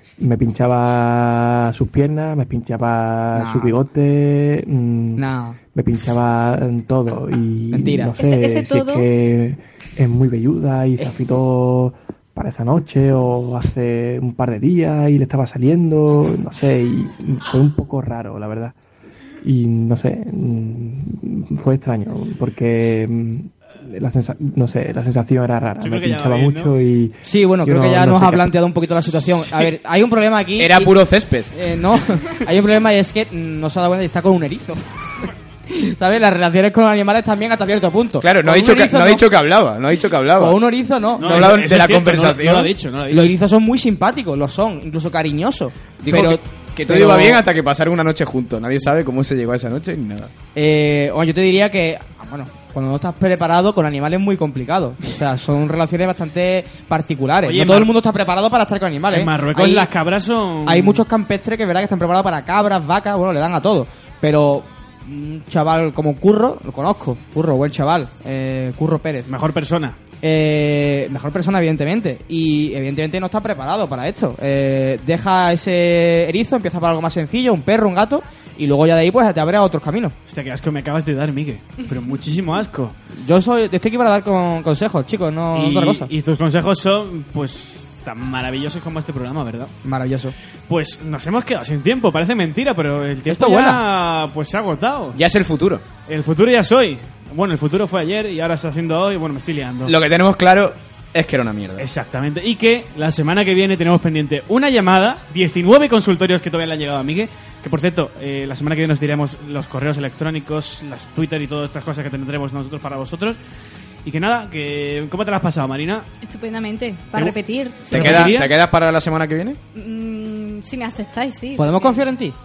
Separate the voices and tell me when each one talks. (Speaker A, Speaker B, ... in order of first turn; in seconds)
Speaker A: 0.2-18.7, 19.4-28.5
Speaker B: 3.3-3.8, 5.2-5.6, 7.7-8.2, 27.2-39.2, 40.4-41.5, 43.1-47.4, 50.5-59.9, 60.6-69.3, 70.2-80.2, 83.2-86.1, 89.8-90.3, 93.3-93.8, 121.5-122.3
Speaker C: 8.2-9.1, 116.2-118.3, 119.7-122.0
Speaker D: 25.8-26.7, 41.2-43.3, 57.4-57.9, 59.1-61.0, 69.3-70.0, 80.3-82.9, 85.5-89.7, 90.7-95.2, 96.1-99.9, 101.8-113.4, 114.0-116.1, 117.9-118.5
Speaker E: 30.6-31.5, 38.2-40.6, 41.2-42.7, 46.0-50.3, 95.1-95.8, 99.8-101.8, 117.9-119.6